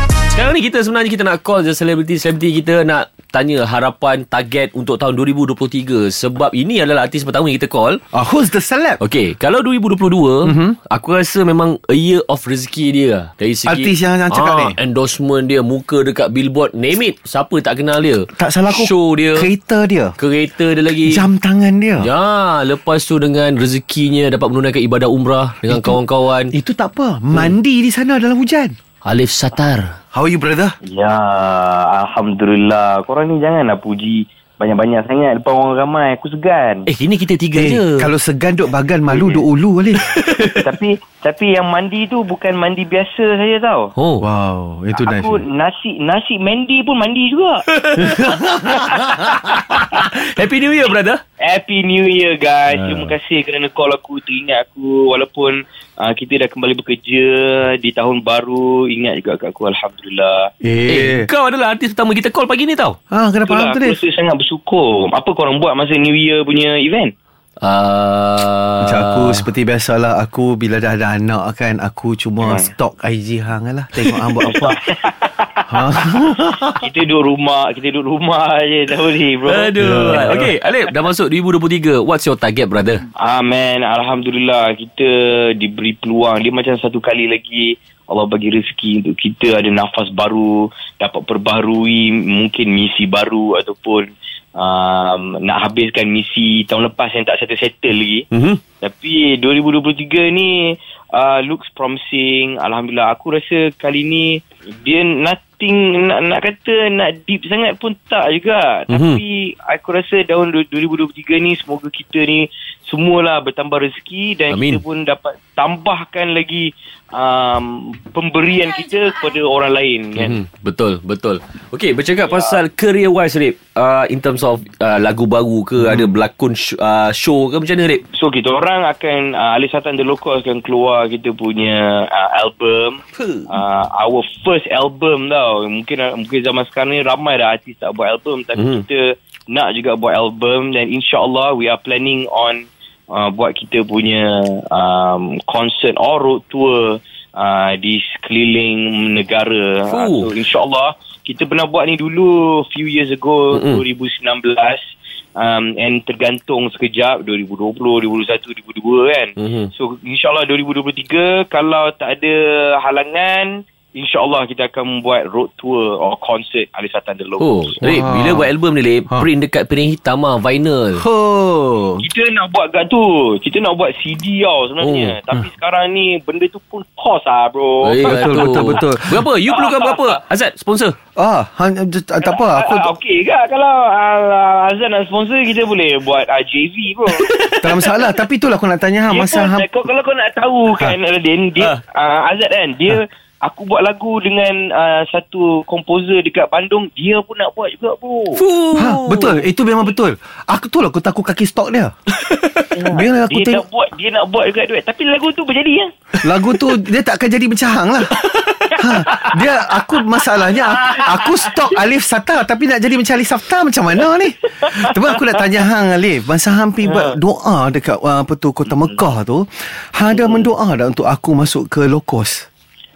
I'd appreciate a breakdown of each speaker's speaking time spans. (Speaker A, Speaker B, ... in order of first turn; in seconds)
Speaker A: 0.3-8.0, 9.0-19.5, 20.2-21.3, 22.0-26.5, 29.0-29.9, 36.9-38.1, 40.1-40.6, 44.0-44.2, 47.7-51.2, 60.9-63.0, 67.6-69.5, 79.5-83.0, 98.3-98.6, 108.9-109.2, 114.5-114.8, 120.2-128.0, 133.1-133.5, 138.6-138.8, 149.9-150.3, 153.5-153.8, 159.4-159.7, 167.4-171.0, 174.8-175.2, 177.8-180.9, 187.2-187.9, 198.3-199.5
Speaker B: 8.1-9.0, 10.4-10.8, 13.7-14.8, 18.3-20.1, 21.0-22.1, 25.7-26.0, 26.5-28.8, 30.1-30.7, 37.5-40.1, 44.2-45.4, 48.0-49.6, 52.7-53.1, 60.6-61.3, 63.1-64.0, 68.8-74.7, 75.7-76.8, 79.8-80.5, 125.8-126.1, 167.8-168.5, 170.9-172.0, 178.0-179.2, 181.2-182.9, 187.6-189.7, 198.8-201.9, 202.8-203.6, 206.2-222.5
Speaker C: 30.8-36.9, 39.1-39.4, 40.6-43.9, 44.9-47.6, 51.4-60.5, 63.4-67.1, 72.4-72.7, 74.4-80.4, 83.2-98.2, 98.8-120.4, 122.2-122.6, 128.1-167.6, 172.0-178.8, 179.5-180.2, 182.2-187.2, 189.1-198.4, 202.7-205.9, 208.2-209.4, 210.4-211.5, 214.6-215.4, 216.8-217.2, 218.7-219.1, 220.1-220.5